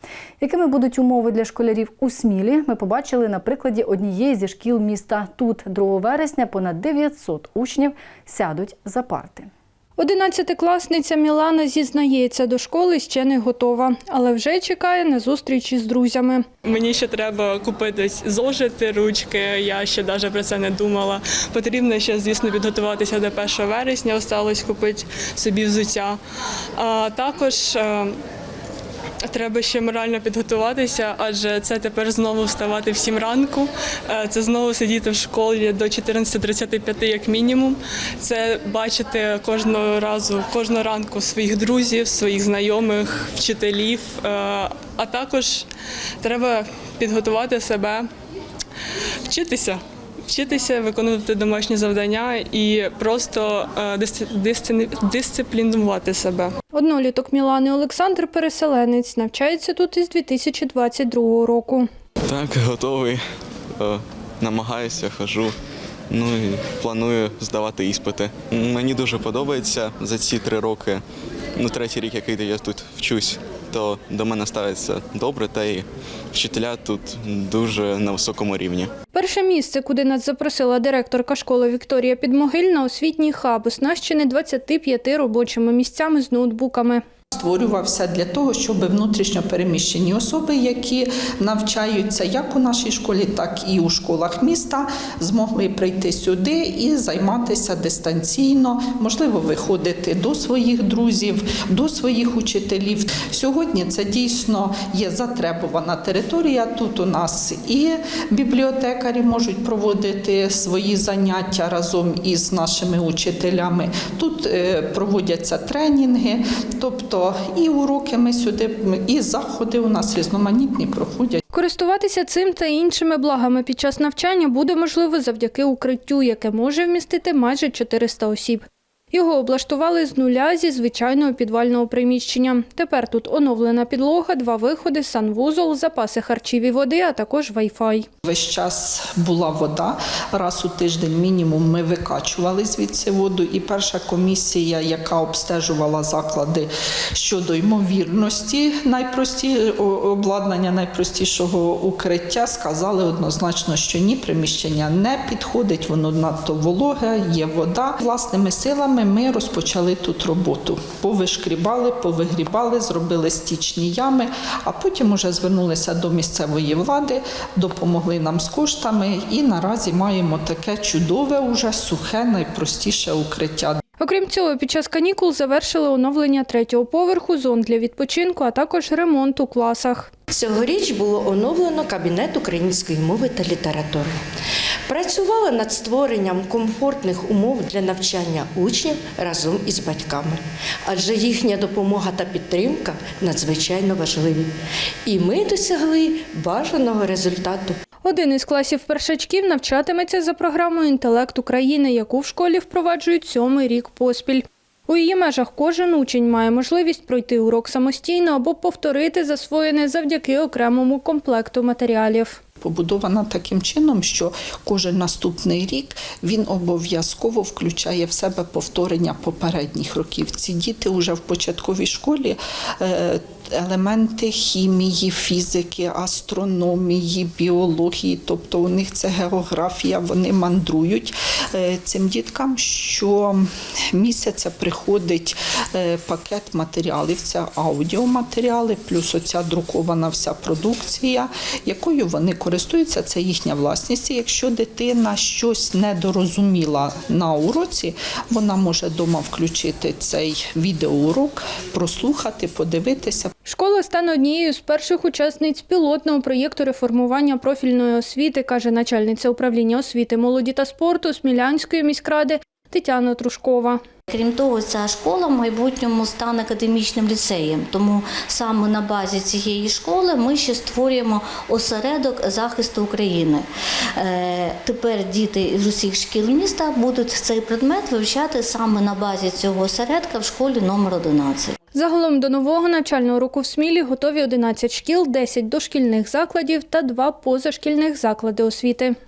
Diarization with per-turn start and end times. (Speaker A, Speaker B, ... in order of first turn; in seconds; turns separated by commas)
Speaker A: 0.4-9.5, Speaker B: 10.0-16.4, Speaker C: 16.6-26.2, Speaker C: 26.8-28.1, Speaker C: 29.3-45.7, Speaker C: 46.2-48.1, Speaker C: 49.3-49.8, Speaker C: 50.3-56.5, Speaker B: 56.7-61.9, Speaker D: 62.3-63.2, Speaker D: 63.8-65.5, Speaker D: 66.1-71.0, Speaker D: 71.5-78.9, Speaker B: 79.1-87.0, Speaker E: 87.3-121.4, Speaker B: 121.5-138.1, Speaker E: 138.2-173.8, Speaker B: 174.0-180.1, Speaker F: 180.3-184.2, Speaker F: 184.9-194.5, Speaker F: 195.1-197.8, Speaker B: 198.0-212.4, Speaker E: 212.6-253.3, Speaker B: 253.4-263.8, Speaker G: 264.1-281.6, Speaker B: 281.7-288.9